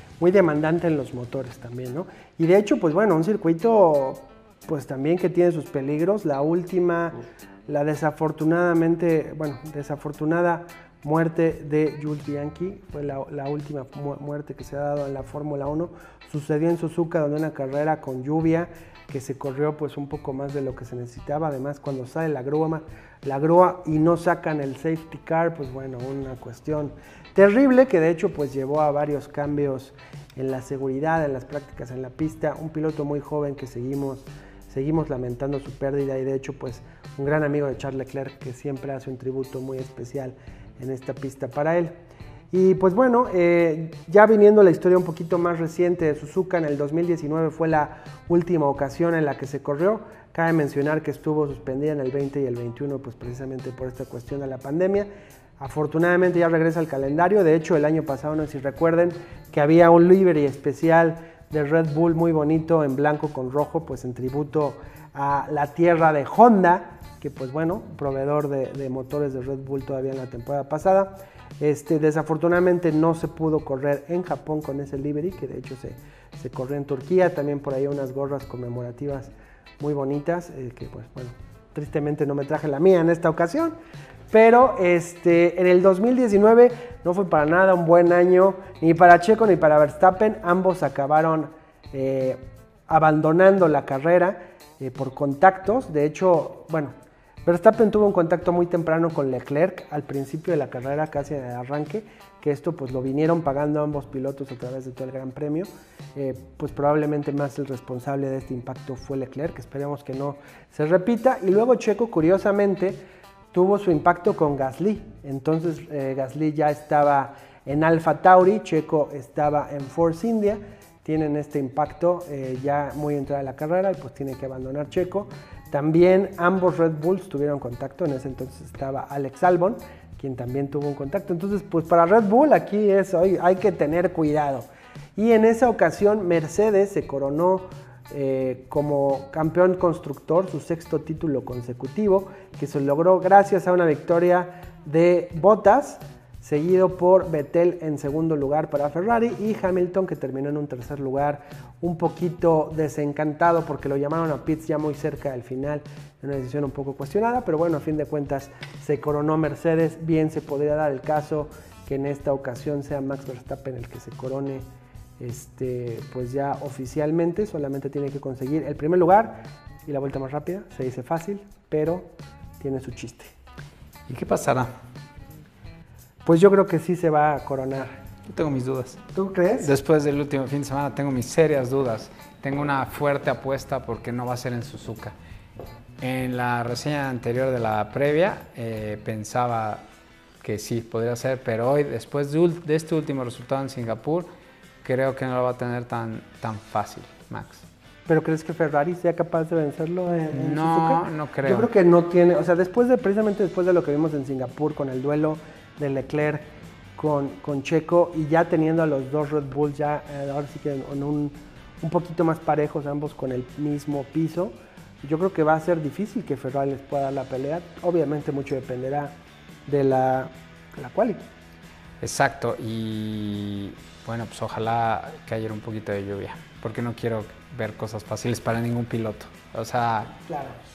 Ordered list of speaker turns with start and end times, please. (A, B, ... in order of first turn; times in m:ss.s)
0:00.2-0:41.9 A
0:42.5-0:55.1 A
0:55.6-1:23.8 A
1:24.3-1:36.9 A
1:37.4-1:53.0 A
1:53.5-2:44.6 A
2:45.2-2:53.3 A
2:54.1-2:54.7 B
2:56.2-2:58.0 A
2:58.3-2:59.0 B
2:59.1-2:59.7 A
2:59.6-3:05.2 B
3:06.0-3:09.8 B
3:10.4-3:14.3 B
3:14.8-3:17.6 B
3:18.1-3:26.4 A
3:20.3-3:21.7 B
3:27.0-3:39.2 A
3:39.7-3:41.3 A
3:42.0-3:50.1 B
3:50.3-3:50.6 A